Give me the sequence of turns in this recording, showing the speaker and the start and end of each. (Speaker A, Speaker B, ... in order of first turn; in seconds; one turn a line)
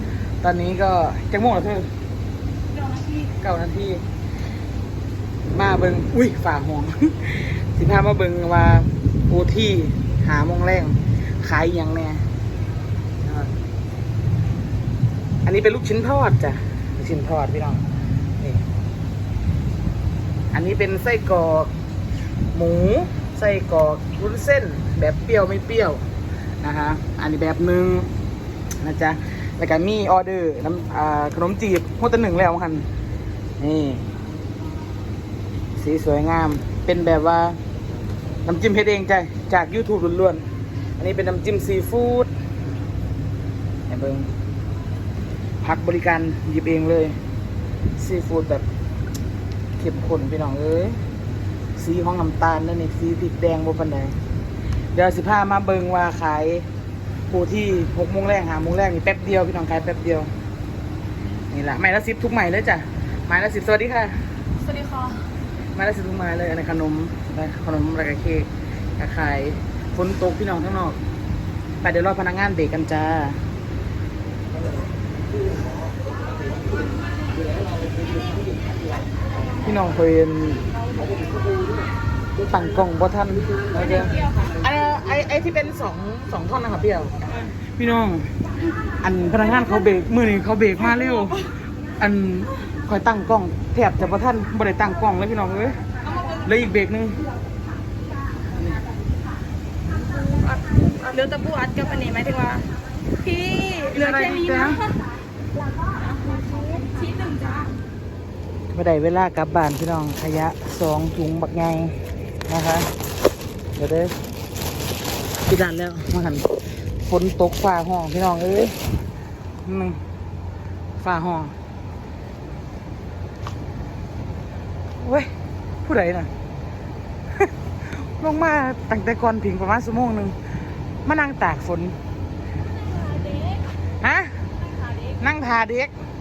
Speaker A: 0.4-1.9
Speaker B: 2.7-3.3
Speaker A: 3.4-4.0
Speaker A: 5.5-12.2
Speaker A: 13.2-13.5
Speaker A: 15.4-17.9
Speaker A: 18.4-18.6
Speaker A: 20.5-21.7
Speaker A: 22.5-26.1
Speaker A: 26.6-28.1
Speaker A: 28.8-32.9
Speaker A: 33.6-34.1
Speaker A: 35.8-37.6
Speaker A: 38.5-40.5
Speaker A: 41.0-42.3
Speaker A: 43.9-44.3
Speaker A: 45.6-47.2
Speaker A: 48.0-48.7
Speaker A: 49.8-51.0
Speaker A: 51.8-54.2
Speaker A: 54.9-56.7
Speaker A: 57.3-60.3
Speaker A: 61.5-64.2
Speaker B: 64.6-65.2
Speaker A: 65.8-71.0
Speaker A: 71.8-73.4
Speaker A: 79.6-80.7
Speaker A: 82.4-87.2
Speaker B: 83.8-84.5
Speaker A: 87.8-88.3
Speaker A: 89.0-95.8
Speaker B: 90.8-91.4
Speaker B: 96.0-96.5
Speaker A: 96.4-97.2
Speaker B: 99.9-102.7
Speaker B: 103.2-105.0
Speaker A: 103.9-104.8
Speaker B: 105.8-107.8
Speaker A: 108.7-112.9
Speaker A: 113.8-114.2
Speaker A: 115.5-118.8
Speaker A: 119.6-120.0
Speaker A: 121.0-121.5
Speaker A: 125.0-125.3
Speaker A: 125.8-126.3
Speaker A: 127.4-130.4
Speaker A: 131.1-132.0
Speaker B: 132.6-133.7
Speaker A: 134.0-134.4
Speaker B: 134.6-135.2
Speaker A: 135.2-135.9